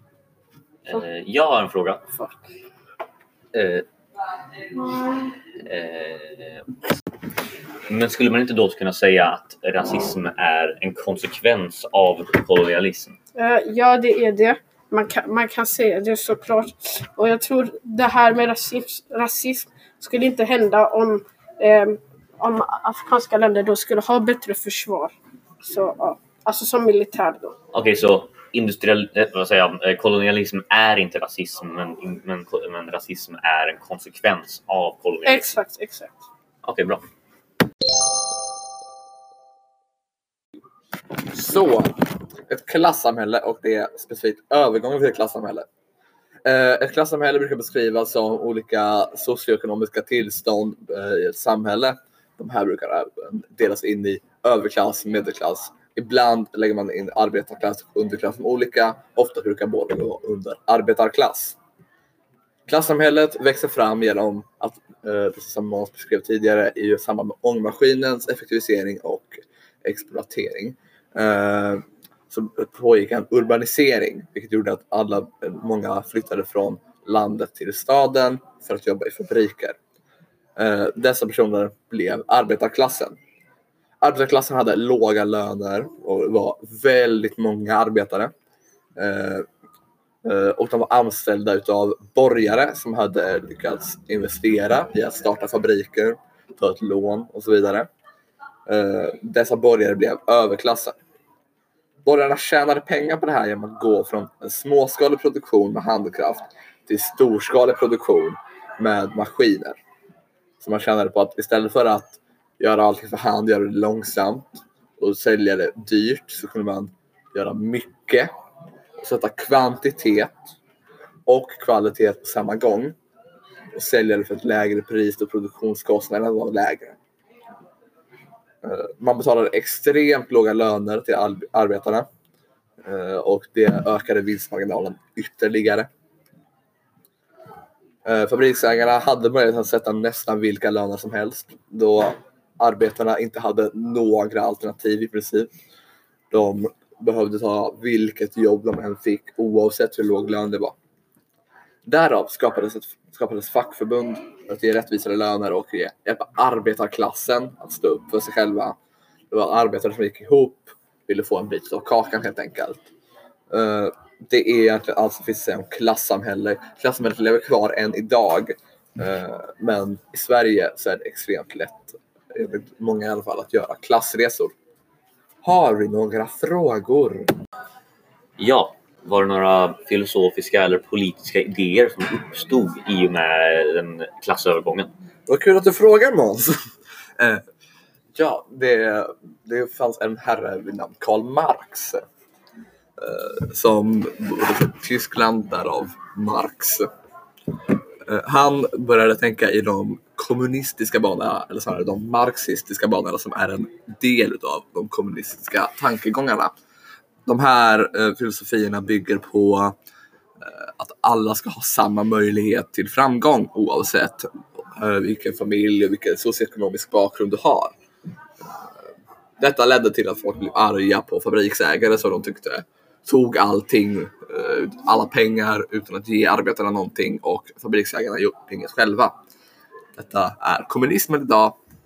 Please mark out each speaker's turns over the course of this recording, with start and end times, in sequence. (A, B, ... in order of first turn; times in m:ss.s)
0:00.8-0:02.0 A
0:02.1-0:02.5 B
0:03.5-0:03.8 A
0:05.6-0:06.8 A
0:07.9-0:13.2 A
0:13.3-0:27.6 B
0:27.7-0:35.5 A
0:35.2-0:36.2 B
0:36.6-0:37.0 A
0:41.2-0:45.6 C
0:46.4-1:01.6 C
1:02.7-1:19.8 C
1:20.6-1:23.2 C
1:24.0-1:28.3 C
1:29.0-1:29.4 C
1:30.2-1:37.9 C
1:38.7-1:41.0 C
1:42.0-1:49.8 C
1:50.6-1:58.3 C
1:59.0-2:00.4 C
2:01.2-2:02.9 C
2:03.7-2:07.0 C
2:08.6-2:12.0 C
2:12.8-2:15.9 C
2:18.0-2:25.5 C
2:26.3-2:30.8 C
2:31.8-2:38.8 C
2:39.3-2:42.9 C
2:43.5-2:54.5 C
2:55.4-2:57.3 C
2:58.4-3:04.9 A
3:05.3-3:06.6 C
3:07.2-3:07.4 C
3:08.1-3:12.0 C
3:13.0-3:16.9 C
3:18.0-3:26.5 C
3:27.2-3:29.8 C
3:30.4-3:37.7 C
3:39.4-3:49.1 C
3:50.0-3:51.6 C